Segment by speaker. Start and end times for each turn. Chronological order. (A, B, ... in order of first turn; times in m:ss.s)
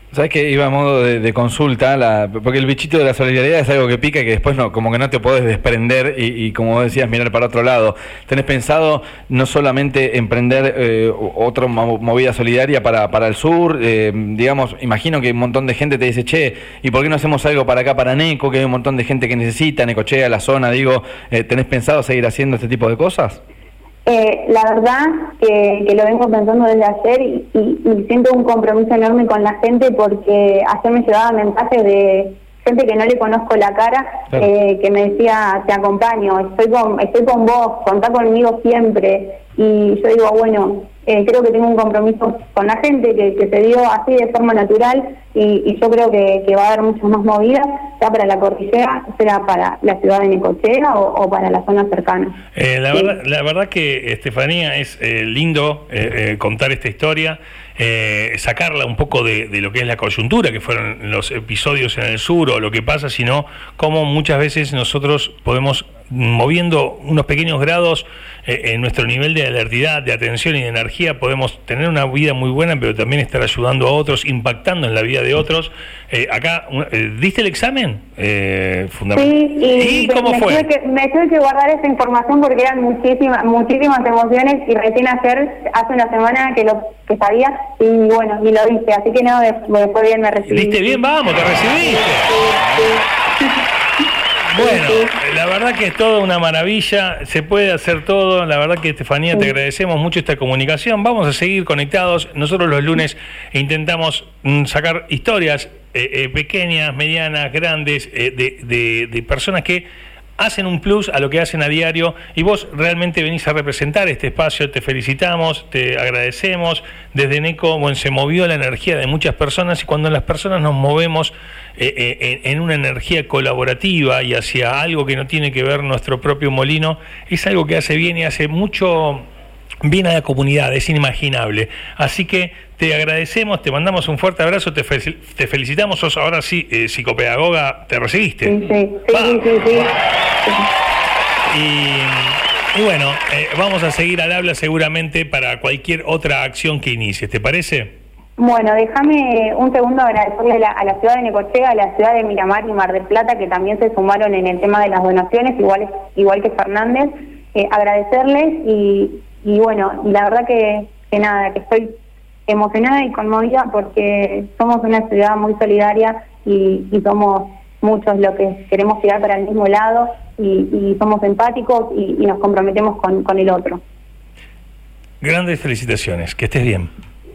0:00.1-0:23.4 A
0:24.1-0:52.4 B
0:52.6-1:20.7 C
1:19.1-1:31.0 B
1:30.5-1:32.4 C
1:31.8-1:33.5 B
1:34.5-1:49.9 C
1:34.6-1:35.1 B
1:50.4-2:09.2 C
2:09.8-2:18.6 C
2:18.5-2:19.9 B
2:19.1-2:19.5 C
2:21.5-2:27.9 C
2:28.4-2:41.9 B
2:42.5-2:53.8 B
2:55.2-2:56.9 C